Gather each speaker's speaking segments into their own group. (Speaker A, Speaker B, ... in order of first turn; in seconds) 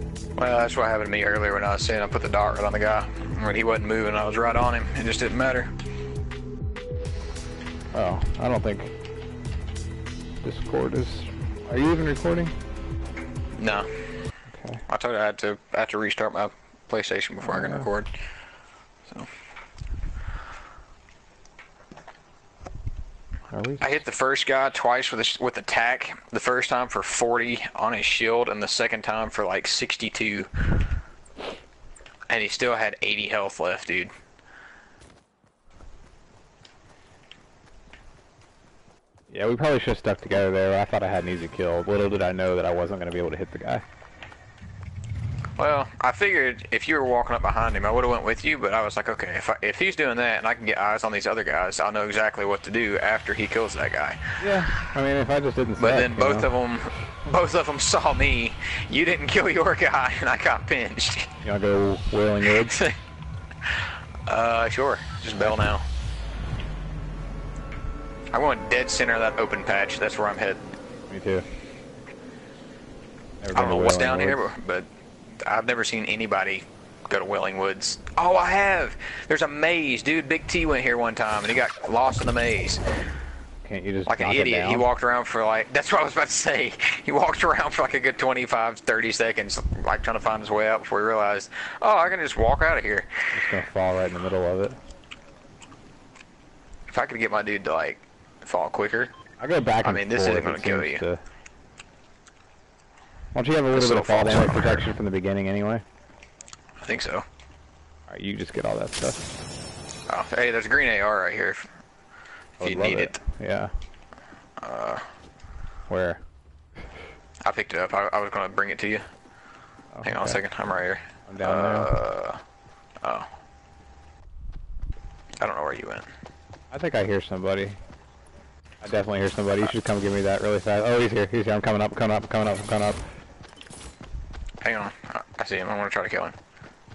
Speaker A: 0.4-5.7, 13.5-13.9, 14.9-18.2, 23.8-30.6, 32.3-34.1, 45.6-54.4, 55.8-61.3, 62.5-63.0, 63.6-65.8, 68.3-70.7, 73.5-82.8, 84.1-93.1, 96.9-99.1, 99.8-101.0, 103.7-104.9, 106.8-107.2, 110.1-111.7, 112.6-113.2, 114.6-115.1, 117.4-119.0, 120.0-122.4, 123.0-123.3, 125.4-126.1, 134.6-136.4
Speaker B: 7.9-8.9, 10.4-12.6, 14.5-14.8, 17.4-17.9, 23.5-24.0, 39.3-43.8, 54.4-56.5, 61.4-62.9, 71.1-71.5, 73.4-74.5, 83.6-84.9, 93.3-94.8, 99.4-101.2, 103.3-105.8, 108.1-109.3, 112.6-113.7, 115.9-116.2, 119.9-120.4, 121.3-121.9, 126.7-127.8, 128.8-133.1